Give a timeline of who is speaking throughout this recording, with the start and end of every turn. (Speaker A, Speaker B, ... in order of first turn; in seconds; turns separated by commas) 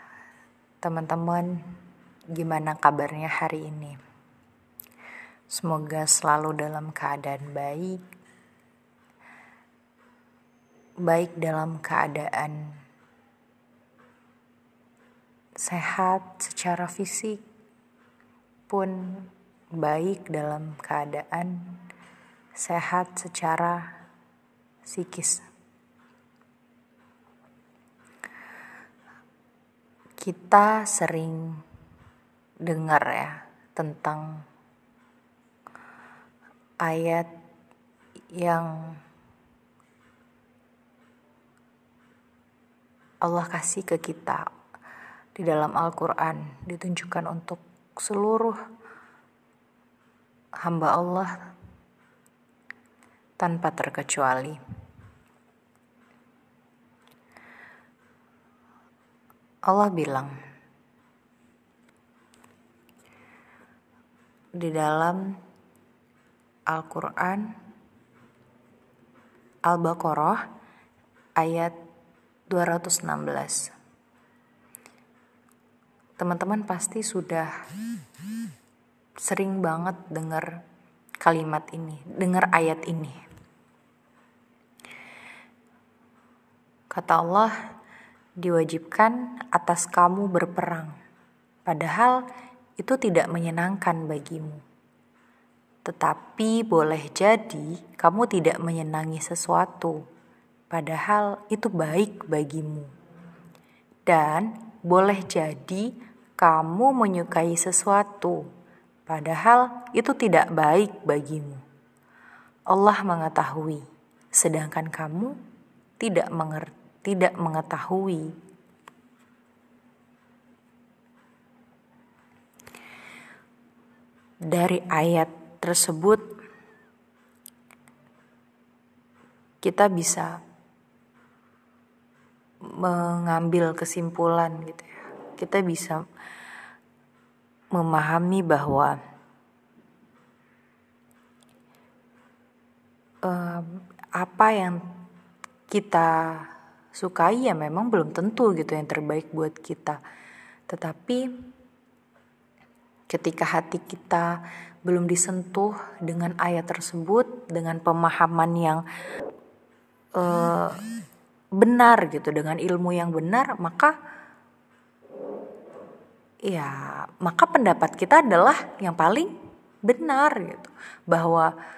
Speaker A: 0.8-1.6, Speaker A: 2.3-4.0, Speaker A: 5.5-8.0, Speaker A: 11.0-12.7, Speaker A: 15.6-17.4, Speaker A: 18.7-21.7, Speaker A: 22.6-23.9, Speaker A: 24.9-25.5, Speaker A: 30.2-31.6, Speaker A: 32.6-34.4, Speaker A: 36.8-37.3, Speaker A: 38.3-39.0, Speaker A: 43.2-44.5, Speaker A: 45.4-48.6, Speaker A: 50.6-51.3, Speaker A: 53.4-54.6, Speaker A: 59.7-60.3, Speaker A: 64.6-65.4, Speaker A: 66.7-67.5, Speaker A: 69.7-70.4, Speaker A: 71.4-71.7, Speaker A: 72.5-73.7, Speaker A: 76.2-77.5, Speaker A: 79.2-80.5, Speaker A: 81.2-83.2, Speaker A: 86.9-87.5, Speaker A: 88.4-91.0, Speaker A: 91.7-92.2, Speaker A: 92.8-94.6, Speaker A: 95.8-100.0, Speaker A: 100.7-102.9, Speaker A: 104.1-108.5, Speaker A: 109.1-111.6, Speaker A: 112.7-115.4, Speaker A: 116.0-118.3, Speaker A: 124.5-126.3, Speaker A: 129.6-130.3, Speaker A: 132.7-136.0, Speaker A: 137.7-139.0, Speaker A: 143.2-144.8, Speaker A: 145.7-150.0, Speaker A: 150.7-151.3, Speaker A: 153.1-158.8, Speaker A: 160.2-160.8, Speaker A: 161.6-163.9, Speaker A: 166.5-169.3, Speaker A: 169.9-171.5